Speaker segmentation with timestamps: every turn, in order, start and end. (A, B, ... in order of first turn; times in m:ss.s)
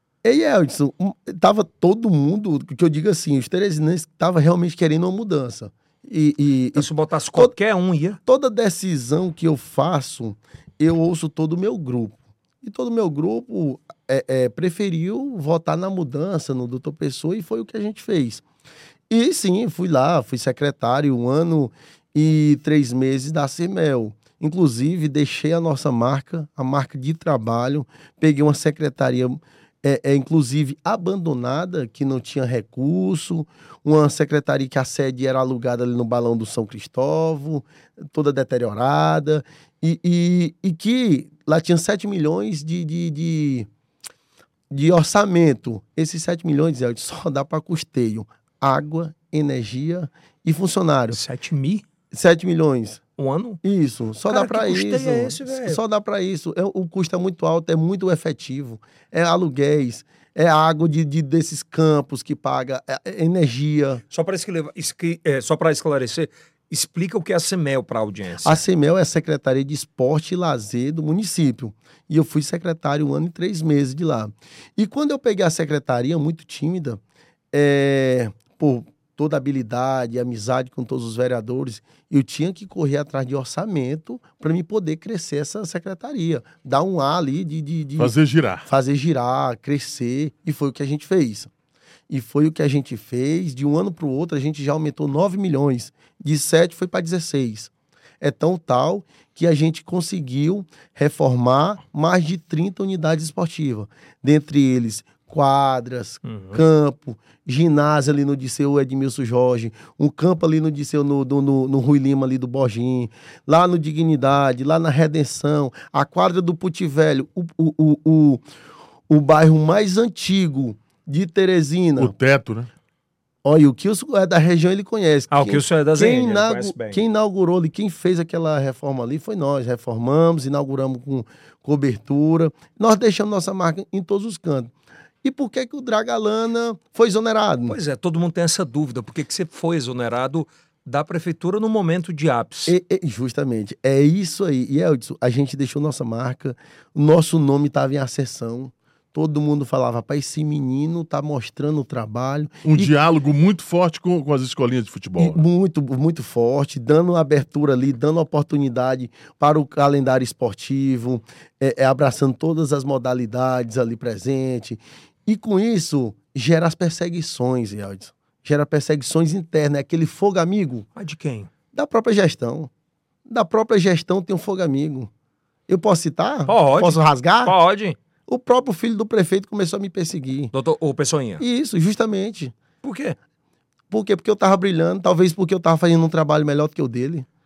0:00.2-0:07.5 A
0:06.8-0:08.2 B
0:08.2-0:18.4 A
0:19.1-0:43.7 A
0:44.7-0:51.2 A
0:51.1-0:51.8 B
0:52.1-0:53.0 A
0:53.2-0:53.6 B
0:53.6-1:04.0 A
0:54.3-0:55.8 B
1:04.1-1:08.6 B
1:08.4-1:17.0 A
1:17.5-1:31.5 A
1:28.0-1:28.7 C
1:32.1-1:58.4 A
1:46.2-1:46.6 B
1:59.1-2:02.1 A
2:02.0-2:02.7 C
2:03.4-2:14.7 A
2:05.3-2:07.0 B
2:15.2-2:17.8 A
2:17.7-2:22.8 B
2:22.7-2:32.9 A
2:32.7-2:35.4 C
2:35.2-2:50.9 A
2:51.0-2:51.5 B
2:51.7-2:52.7 A
2:53.3-2:55.1 A
2:55.7-2:57.6 A
2:56.5-2:58.0 B
2:58.3-3:00.5 A
3:00.5-3:01.4 B
3:01.4-3:02.6 A
3:02.8-3:03.2 B
3:03.9-3:07.3 A